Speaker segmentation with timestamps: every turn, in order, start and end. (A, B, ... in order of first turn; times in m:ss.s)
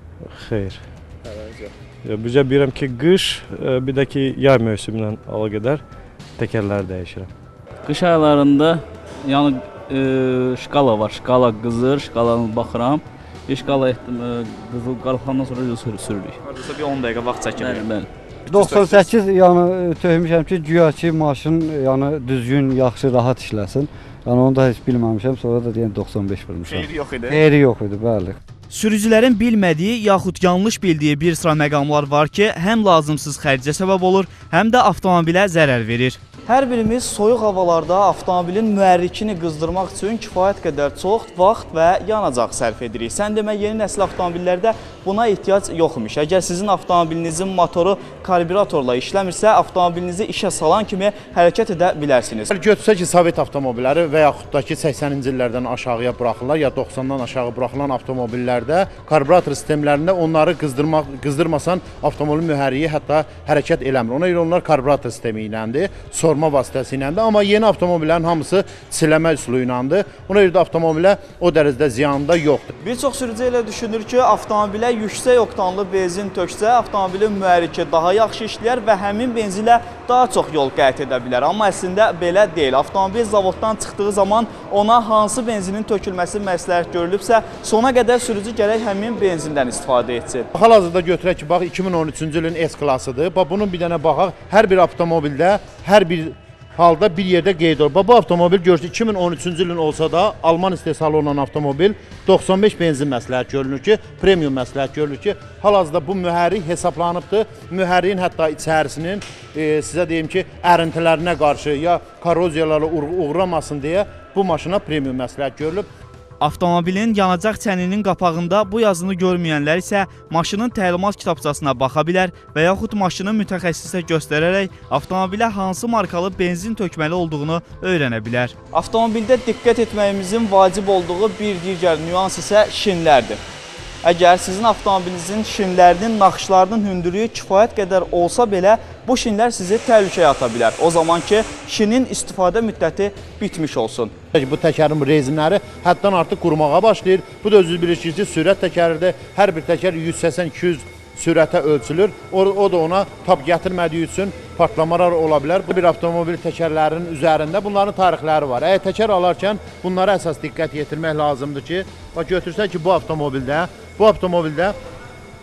0:00.2-0:00.8 A
0:02.0-0:05.8 A
0:06.4-0:07.3 A
0:07.8-0:16.4 B
0:16.4-0:17.8 C
0:17.6-0:18.1 B
0:18.5-0:19.1 C
0:18.5-0:28.4 D
0:26.6-0:27.4 C
0:28.7-0:52.5 C
0:52.5-1:12.7 E
1:12.8-1:30.5 C
1:30.5-1:55.9 E
1:56.4-2:13.4 C
2:14.0-2:24.1 C
2:24.3-2:44.8 E